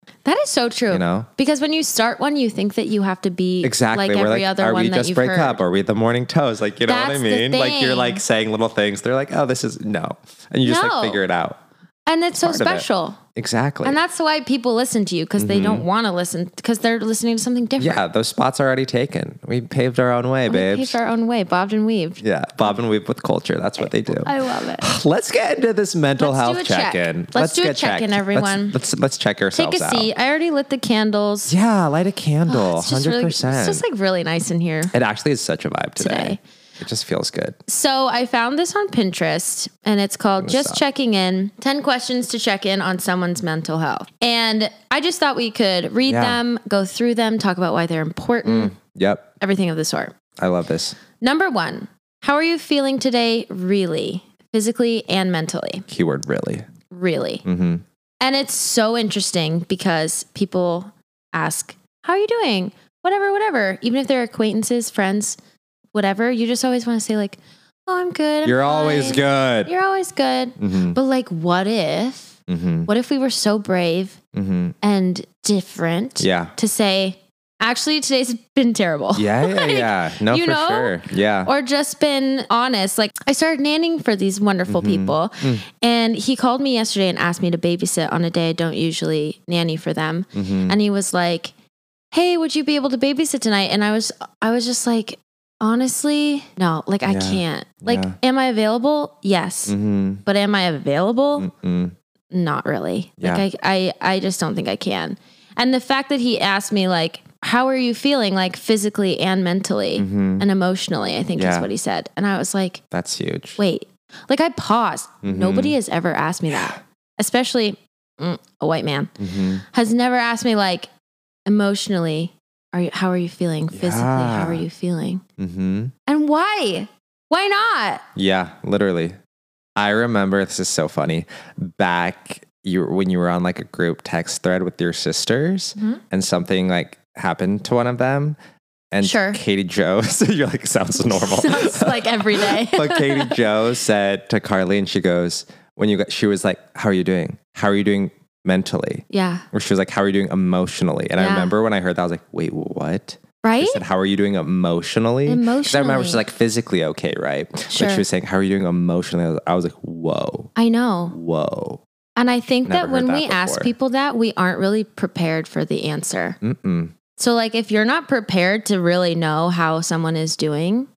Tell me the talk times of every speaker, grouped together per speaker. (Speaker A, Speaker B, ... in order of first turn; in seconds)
Speaker A: 0.2-5.6, 6.8-8.2, 10.6-11.2, 12.1-13.2, 13.8-18.0, 20.5-22.2, 23.8-24.9, 26.2-28.8, 29.5-31.5, 32.5-34.9, 36.0-36.4, 37.7-48.7, 49.4-50.1, 51.2-55.8, 56.9-57.4, 58.2-65.4, 65.9-74.2, 74.8-91.5, 92.1-101.5, 102.3-112.8, 113.6-119.1, 119.6-120.9, 121.5-125.2, 126.1-128.0, 139.0-139.4, 141.1-143.4, 149.1-149.4, 151.2-151.5, 153.4-153.8, 155.2-156.2, 157.7-158.0, 160.6-161.2, 162.2-166.4, 167.2-170.9
Speaker B: 0.9-1.3, 3.6-11.6, 12.4-14.0, 15.4-15.9, 17.8-21.0, 22.2-30.1, 31.5-33.8, 34.9-37.6, 40.4-40.8, 46.0-46.4, 48.4-49.3, 50.4-51.0, 55.9-56.7, 57.4-57.8, 68.4-69.7, 70.6-71.0, 72.5-72.9, 74.3-74.8, 76.2-76.5, 79.1-81.5, 84.7-85.6, 90.3-90.8, 97.0-98.2, 99.7-100.2, 101.4-101.9, 103.2-103.4, 110.0-110.4, 111.3-111.7, 112.9-113.6, 115.2-115.8, 119.2-119.6, 123.7-124.6, 125.4-125.9, 128.1-129.2, 129.8-138.4, 138.9-160.5, 161.1-161.8, 162.6-163.7, 166.4-166.9